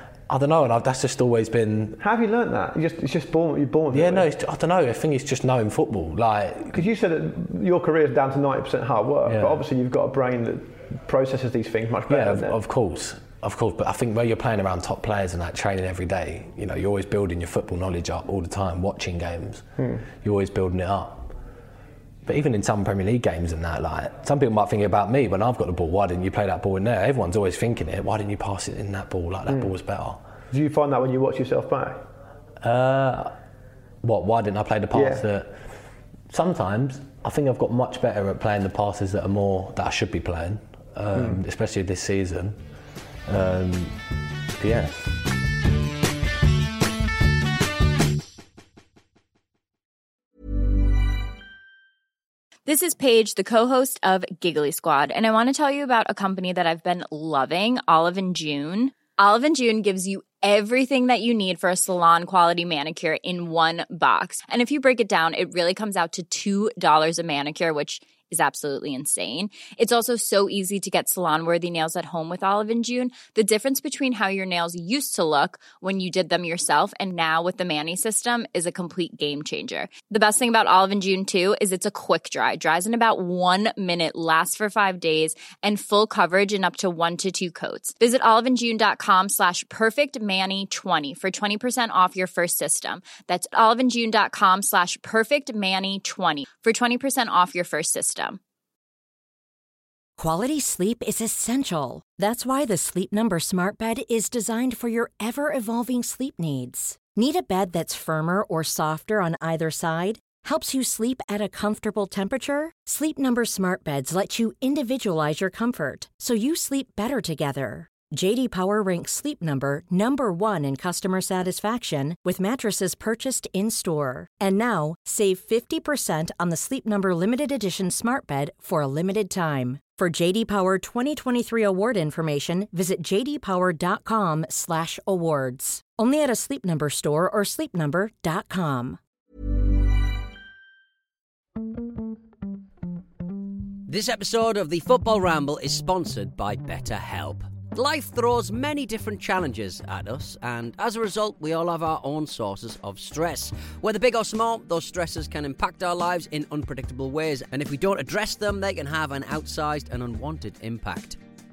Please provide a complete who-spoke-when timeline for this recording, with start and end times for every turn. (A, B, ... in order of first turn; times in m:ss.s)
0:00.3-0:02.0 A
0:02.0-0:04.2 B
0:03.9-0:06.8 A
0:06.7-0:12.6 B
0:09.2-0:09.6 A
0:12.1-0:19.7 A
0:19.8-0:20.0 B
0:20.2-0:21.3 A
0:22.2-0:30.2 A
0:30.5-0:32.0 B
0:32.6-0:33.3 A
0:34.0-0:35.5 A
0:34.9-0:35.2 B
0:36.3-0:42.6 A
0:41.1-0:41.4 B
0:43.2-0:44.0 A
0:44.6-0:45.1 A
0:52.6-1:38.4 C
1:40.2-2:19.0 D
2:23.9-2:41.2 E